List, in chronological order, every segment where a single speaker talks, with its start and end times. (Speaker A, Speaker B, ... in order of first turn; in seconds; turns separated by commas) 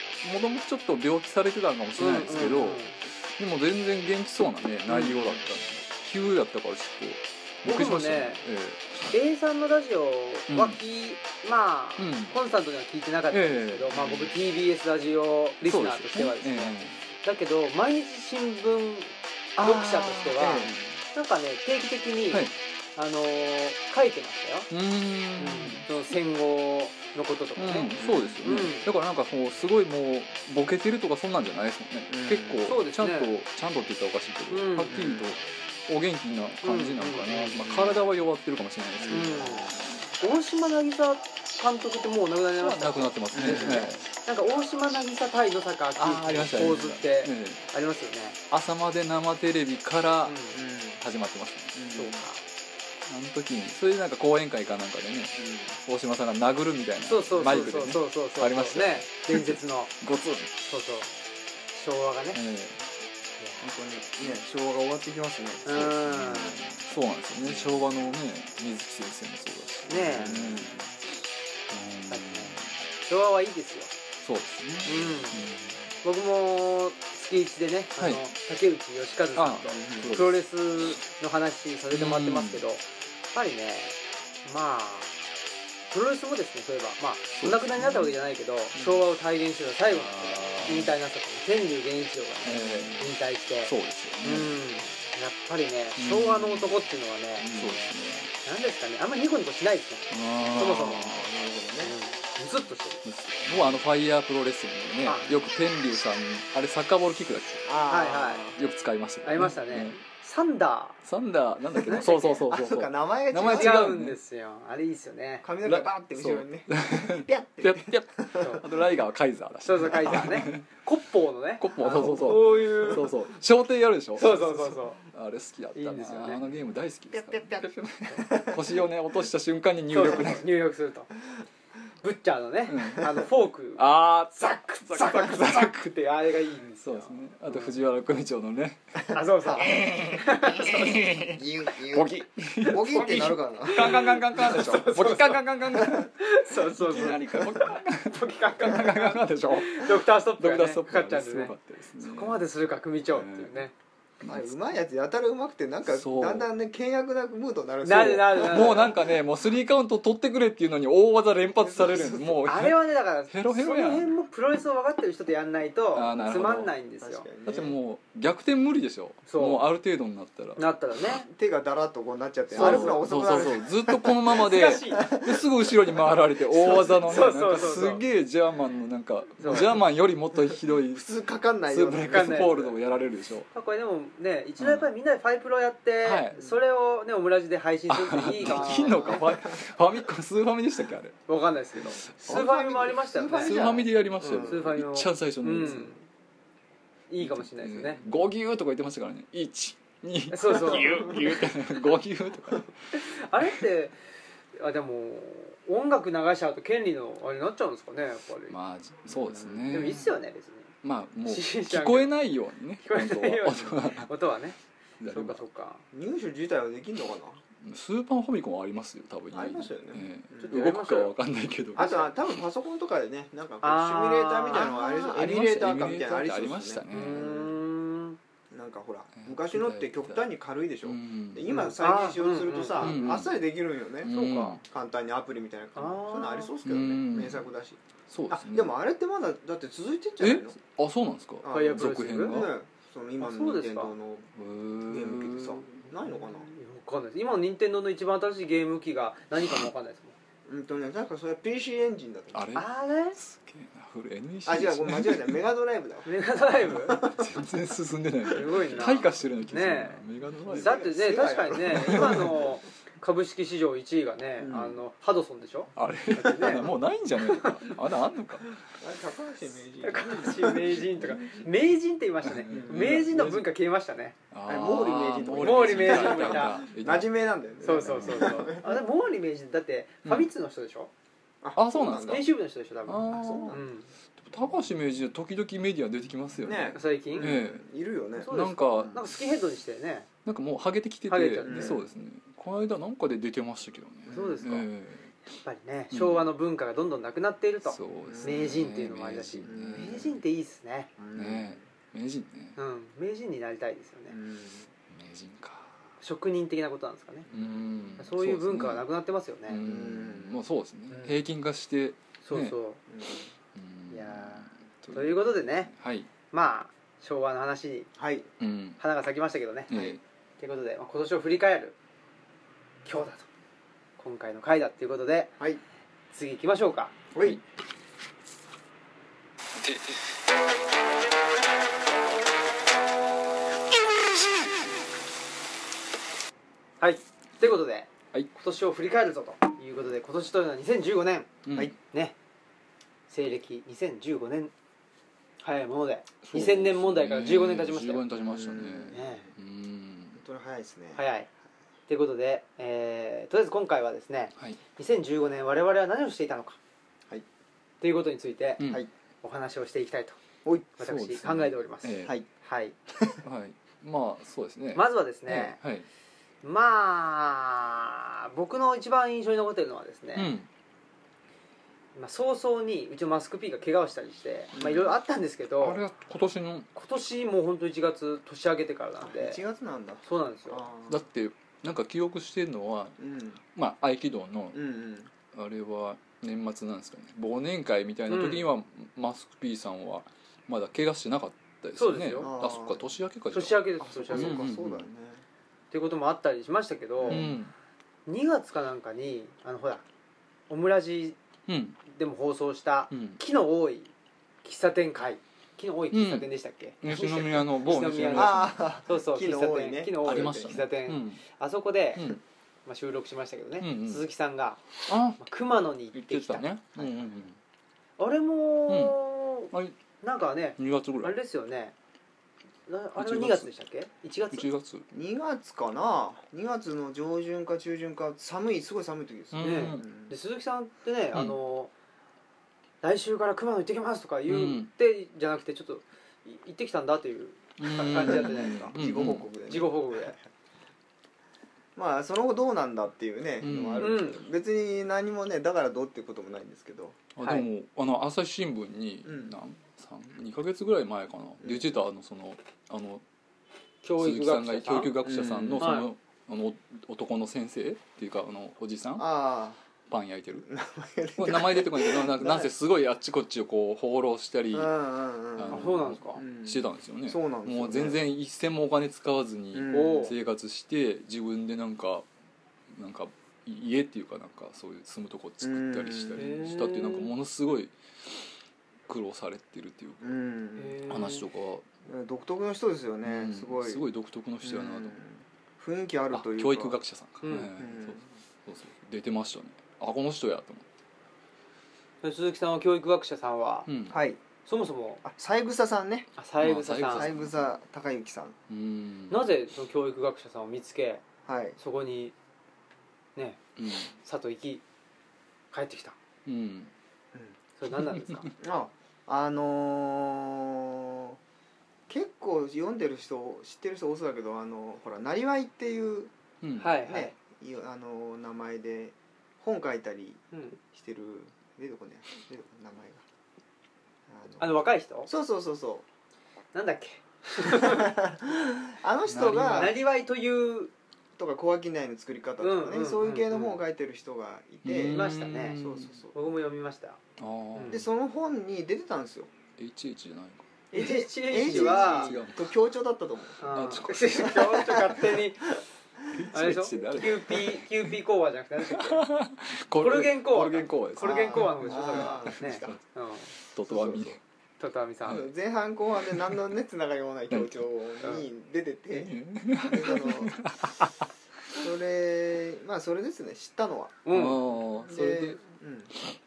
Speaker A: 0.2-9.1, Speaker B: 2.0-3.0, Speaker C: 4.9-5.4, Speaker B: 7.6-8.4, Speaker B: 9.1-24.7, Speaker A: 10.5-10.8, Speaker A: 12.0-12.3, Speaker A: 13.3-13.9, Speaker C: 13.9-14.3, Speaker A: 15.7-17.0, Speaker A: 19.6-20.7, Speaker C: 19.8-20.9, Speaker A: 24.7-25.9, Speaker B: 25.4-28.9, Speaker A: 27.6-39.6, Speaker C: 28.0-28.6, Speaker C: 32.1-32.6, Speaker B: 32.6-33.3, Speaker B: 34.5-35.0, Speaker C: 34.9-35.3, Speaker B: 36.6-37.9, Speaker C: 37.6-38.0, Speaker C: 39.0-40.1, Speaker B: 39.1-48.4, Speaker A: 42.6-44.1, Speaker C: 43.3-43.9, Speaker A: 46.0-47.6, Speaker A: 48.5-50.5, Speaker B: 50.3-50.6, Speaker C: 50.5-51.0, Speaker A: 51.0-51.8, Speaker C: 51.8-52.2, Speaker B: 51.9-52.4, Speaker A: 53.1-60.5, Speaker C: 55.4-55.8, Speaker B: 57.1-59.9, Speaker C: 57.4-57.7, Speaker B: 60.6-61.1, Speaker B: 61.7-62.4, Speaker A: 62.3-62.9, Speaker B: 63.4-63.7, Speaker C: 63.6-66.4, Speaker B: 65.7-66.6, Speaker A: 65.9-70.9, Speaker C: 67.5-68.1, Speaker B: 69.9-70.5, Speaker C: 69.9-70.9, Speaker A: 71.7-72.7, Speaker B: 72.1-73.9, Speaker A: 74.2-76.0, Speaker B: 74.8-75.5, Speaker B: 76.0-85.2, Speaker A: 78.0-78.2, Speaker A: 79.4-80.4, Speaker C: 79.7-80.2, Speaker A: 81.9-82.6, Speaker B: 85.9-97.8, Speaker A: 87.4-88.2, Speaker A: 89.9-90.9, Speaker A: 92.4-93.1, Speaker A: 93.7-94.6, Speaker A: 96.0-96.8, Speaker A: 97.4-98.3, Speaker B: 98.4-101.3, Speaker A: 100.1-101.2, Speaker C: 100.5-102.0, Speaker B: 101.8-103.0, Speaker A: 103.0-107.7, Speaker B: 105.0-105.3, Speaker C: 107.7-108.6, Speaker B: 107.9-108.5, Speaker A: 108.6-110.0, Speaker B: 109.2-111.0, Speaker A: 111.0-114.2, Speaker B: 111.8-112.4, Speaker C: 112.5-114.0, Speaker B: 113.4-115.5, Speaker C: 115.4-118.6, Speaker A: 115.6-120.7, Speaker B: 119.6-123.1, Speaker A: 121.6-130.4, Speaker B: 124.2-125.0, Speaker B: 125.8-126.4, Speaker C: 127.1-128.8, Speaker B: 129.9-131.1, Speaker B: 132.0-133.8, Speaker A: 132.7-133.1, Speaker A: 133.8-136.0, Speaker B: 134.4-137.8, Speaker A: 136.8-152.4, Speaker B: 139.1-141.2, Speaker C: 141.3-144.1, Speaker B: 142.6-153.7, Speaker A: 153.1-153.7, Speaker A: 154.2-154.5, Speaker C: 154.2-159.1, Speaker A: 155.9-156.5, Speaker B: 157.8-159.0, Speaker A: 158.3-164.1, Speaker C: 161.6-162.5, Speaker B: 162.4-167.3, Speaker A: 165.9-166.7, Speaker C: 167.0-167.8, Speaker A: 167.5-170.6, Speaker B: 169.3-169.7, Speaker B: 170.6-171.3, Speaker C: 171.2-174.4, Speaker A: 172.5-181.1, Speaker B: 172.5-173.1, Speaker B: 174.3-175.2, Speaker C: 174.9-175.4, Speaker B: 176.5-178.0, Speaker C: 176.7-176.9, Speaker B: 179.4-179.8, Speaker C: 179.5-179.8, Speaker C: 180.9-182.7, Speaker A: 181.7-183.5, Speaker B: 182.1-182.7, Speaker B: 183.5-189.3, Speaker A: 184.6-184.9, Speaker A: 186.0-186.4, Speaker C: 186.3-186.6, Speaker A: 187.9-191.2, Speaker C: 188.4-189.5, Speaker B: 191.3-193.9, Speaker A: 192.0-192.4, Speaker C: 192.2-194.8, Speaker A: 193.2-195.9, Speaker B: 194.4-196.0, Speaker B: 197.1-198.0, Speaker A: 197.2-203.6, Speaker B: 200.3-201.2, Speaker C: 200.8-201.4, Speaker B: 202.9-203.9, Speaker B: 204.6-208.6, Speaker A: 208.5-210.2, Speaker C: 209.1-209.8, Speaker B: 209.7-210.7, Speaker A: 210.8-214.1, Speaker B: 211.2-212.2, Speaker B: 212.8-214.6, Speaker A: 215.0-215.4, Speaker B: 215.1-215.8, Speaker C: 215.9-217.4, Speaker A: 217.6-222.1, Speaker C: 219.3-220.6, Speaker B: 220.4-221.2, Speaker C: 221.8-227.6, Speaker B: 221.8-222.1, Speaker B: 223.6-225.0, Speaker A: 224.7-227.3, Speaker B: 226.9-228.2, Speaker C: 228.5-237.8, Speaker A: 229.2-230.2, Speaker A: 230.8-231.5, Speaker B: 231.5-233.3, Speaker A: 232.8-233.3, Speaker A: 234.0-234.6, Speaker B: 234.1-234.6, Speaker B: 235.8-236.5, Speaker A: 236.7-237.5, Speaker A: 238.1-238.8, Speaker C: 238.5-240.6, Speaker A: 240.2-242.5, Speaker C: 241.4-244.3, Speaker B: 241.5-242.4, Speaker B: 243.2-243.9, Speaker A: 244.3-245.6, Speaker C: 244.9-246.5, Speaker B: 246.0-250.2, Speaker C: 250.5-252.6, Speaker A: 252.3-255.4, Speaker B: 252.6-253.2, Speaker C: 254.5-256.1, Speaker B: 256.1-257.2, Speaker A: 256.4-260.7, Speaker B: 258.3-260.0, Speaker C: 260.5-262.5, Speaker B: 260.6-266.7, Speaker A: 261.5-262.4, Speaker C: 264.4-264.8, Speaker A: 265.8-268.6, Speaker B: 267.4-267.6, Speaker C: 268.7-270.9, Speaker B: 269.8-274.2, Speaker A: 272.2-273.5, Speaker C: 272.5-273.0, Speaker A: 274.3-278.6, Speaker C: 274.5-278.8, Speaker B: 275.4-276.7, Speaker B: 277.6-280.9, Speaker C: 281.4-282.3, Speaker A: 281.6-282.3, Speaker B: 282.1-283.9, Speaker A: 282.9-283.6, Speaker C: 283.1-283.6, Speaker A: 284.2-287.6, Speaker C: 286.4-289.0, Speaker B: 286.8-287.4, Speaker A: 288.2-289.0, Speaker B: 288.2-290.1, Speaker A: 290.2-295.1, Speaker B: 291.1-291.8, Speaker C: 291.4-291.9, Speaker C: 294.1-294.4, Speaker B: 294.1-294.7, Speaker B: 295.3-300.9, Speaker A: 295.9-296.3, Speaker A: 297.6-300.1, Speaker C: 298.1-298.6, Speaker C: 299.4-300.2, Speaker C: 301.0-301.6, Speaker A: 301.1-302.6, Speaker B: 302.6-304.2, Speaker C: 304.1-304.7, Speaker A: 304.9-305.7, Speaker B: 306.0-307.3, Speaker C: 307.3-307.6, Speaker A: 307.3-308.9, Speaker B: 308.0-309.6, Speaker A: 309.5-312.6, Speaker C: 309.6-310.4, Speaker B: 312.2-312.8, Speaker C: 312.9-313.3, Speaker A: 313.6-316.1, Speaker B: 313.9-315.7, Speaker B: 316.3-317.9, Speaker C: 318.0-318.3, Speaker A: 318.4-318.8, Speaker B: 318.8-319.7, Speaker A: 319.7-320.0, Speaker C: 319.7-320.0, Speaker B: 320.4-321.8, Speaker B: 322.9-323.3, Speaker B: 324.0-325.4, Speaker B: 326.1-326.9, Speaker C: 327.1-327.4, Speaker A: 329.6-329.9, Speaker B: 336.8-341.3, Speaker A: 341.4-341.7, Speaker B: 341.9-342.2, Speaker B: 343.1-344.5, Speaker B: 345.4-348.1, Speaker A: 346.2-350.2, Speaker C: 348.2-349.3, Speaker B: 348.9-349.3, Speaker C: 350.1-351.0, Speaker B: 351.0-351.3, Speaker B: 351.9-356.6, Speaker B: 357.8-358.6, Speaker A: 358.6-358.9, Speaker C: 358.6-358.9, Speaker B: 359.2-360.2, Speaker C: 360.4-360.7, Speaker B: 360.8-362.8, Speaker A: 360.8-362.2, Speaker A: 363.2-365.9, Speaker B: 364.8-365.6, Speaker B: 366.4-370.3, Speaker A: 370.2-370.5, Speaker B: 372.0-375.8, Speaker C: 374.5-374.9, Speaker A: 375.6-376.7, Speaker B: 376.7-379.4, Speaker C: 379.0-381.0, Speaker B: 380.0-380.6, Speaker A: 380.9-383.0, Speaker C: 383.0-383.4, Speaker A: 383.5-384.6, Speaker C: 384.5-385.1, Speaker A: 385.3-394.9, Speaker B: 388.1-388.5, Speaker B: 391.8-392.3, Speaker C: 392.2-392.9, Speaker B: 393.3-394.4, Speaker C: 393.8-395.2, Speaker B: 395.7-397.3, Speaker C: 397.0-397.4, Speaker A: 397.1-397.5, Speaker B: 398.1-399.9, Speaker B: 400.5-401.2, Speaker A: 401.5-401.8, Speaker B: 401.9-403.9, Speaker A: 402.9-403.2, Speaker B: 404.4-412.1, Speaker A: 405.9-406.3, Speaker A: 406.8-408.6, Speaker C: 408.1-410.6, Speaker A: 410.0-411.2, Speaker B: 412.7-414.6, Speaker A: 413.6-414.0, Speaker A: 414.9-415.2, Speaker B: 415.2-416.5, Speaker A: 415.9-417.4, Speaker C: 416.8-417.1, Speaker B: 418.0-421.8, Speaker A: 418.7-419.0, Speaker A: 419.5-419.8, Speaker A: 420.6-421.1, Speaker B: 422.7-424.5, Speaker A: 423.0-423.5, Speaker A: 424.3-424.9, Speaker C: 424.9-430.1, Speaker A: 429.3-429.9, Speaker B: 429.4-431.7, Speaker B: 432.8-438.7, Speaker A: 434.3-434.7, Speaker A: 437.6-439.3, Speaker C: 437.9-440.1, Speaker B: 439.5-440.2, Speaker C: 441.8-447.1, Speaker A: 443.4-444.1, Speaker B: 443.8-444.2, Speaker A: 447.2-453.0, Speaker B: 447.2-447.5, Speaker C: 449.1-449.4, Speaker C: 451.4-451.7, Speaker B: 453.8-455.1, Speaker A: 454.0-459.1, Speaker C: 455.0-455.8, Speaker B: 455.6-455.9, Speaker C: 459.0-459.6, Speaker A: 459.9-460.5, Speaker C: 460.5-462.5, Speaker A: 461.2-464.8, Speaker C: 464.5-468.0, Speaker A: 465.4-472.1, Speaker B: 465.5-466.2, Speaker C: 469.5-470.1, Speaker B: 469.7-470.1, Speaker A: 472.7-477.7, Speaker C: 475.4-476.3, Speaker B: 476.1-477.1, Speaker A: 478.9-480.1, Speaker C: 480.0-480.8, Speaker B: 480.6-481.3, Speaker A: 480.9-481.6, Speaker C: 481.9-483.9, Speaker A: 483.1-485.0, Speaker C: 484.4-486.8, Speaker A: 486.1-490.6, Speaker B: 487.2-487.5, Speaker C: 487.6-488.0, Speaker B: 492.0-493.7, Speaker A: 493.7-494.0, Speaker C: 493.9-494.2, Speaker B: 494.4-495.0, Speaker C: 495.0-496.1, Speaker B: 496.2-497.1, Speaker A: 496.4-497.5, Speaker C: 496.9-498.4, Speaker A: 498.5-499.3, Speaker B: 499.1-501.0, Speaker C: 501.3-501.6, Speaker B: 501.6-502.1, Speaker A: 503.6-503.9, Speaker B: 504.0-504.6, Speaker B: 505.5-506.0, Speaker A: 506.3-506.7, Speaker B: 507.6-508.3, Speaker A: 507.8-508.3, Speaker C: 508.4-511.2, Speaker C: 511.9-516.1, Speaker A: 516.4-516.9, Speaker B: 516.6-517.1, Speaker C: 516.9-523.0, Speaker B: 520.3-520.6, Speaker C: 524.1-525.9, Speaker B: 524.4-525.1, Speaker B: 526.5-528.0, Speaker C: 527.5-529.8, Speaker A: 529.1-529.8, Speaker B: 529.2-530.7, Speaker C: 531.2-536.1, Speaker B: 532.4-533.6, Speaker A: 534.6-536.0, Speaker B: 534.9-535.6, Speaker B: 536.1-537.0, Speaker A: 537.2-537.8, Speaker B: 537.5-537.8, Speaker C: 537.7-539.3, Speaker A: 539.6-540.5, Speaker B: 540.7-542.2, Speaker C: 540.7-545.0, Speaker A: 541.3-542.5, Speaker B: 543.4-545.5, Speaker A: 543.5-544.4, Speaker A: 546.1-547.9, Speaker B: 546.3-549.0, Speaker A: 548.6-552.8, Speaker B: 549.8-553.3, Speaker C: 551.0-552.8, Speaker A: 553.5-554.2, Speaker C: 553.6-554.1, Speaker B: 554.6-555.3, Speaker C: 555.1-560.4, Speaker A: 556.0-556.4, Speaker A: 557.3-557.6, Speaker A: 558.9-561.0, Speaker C: 561.5-564.0, Speaker B: 564.0-564.4, Speaker A: 564.1-565.4, Speaker C: 564.9-566.0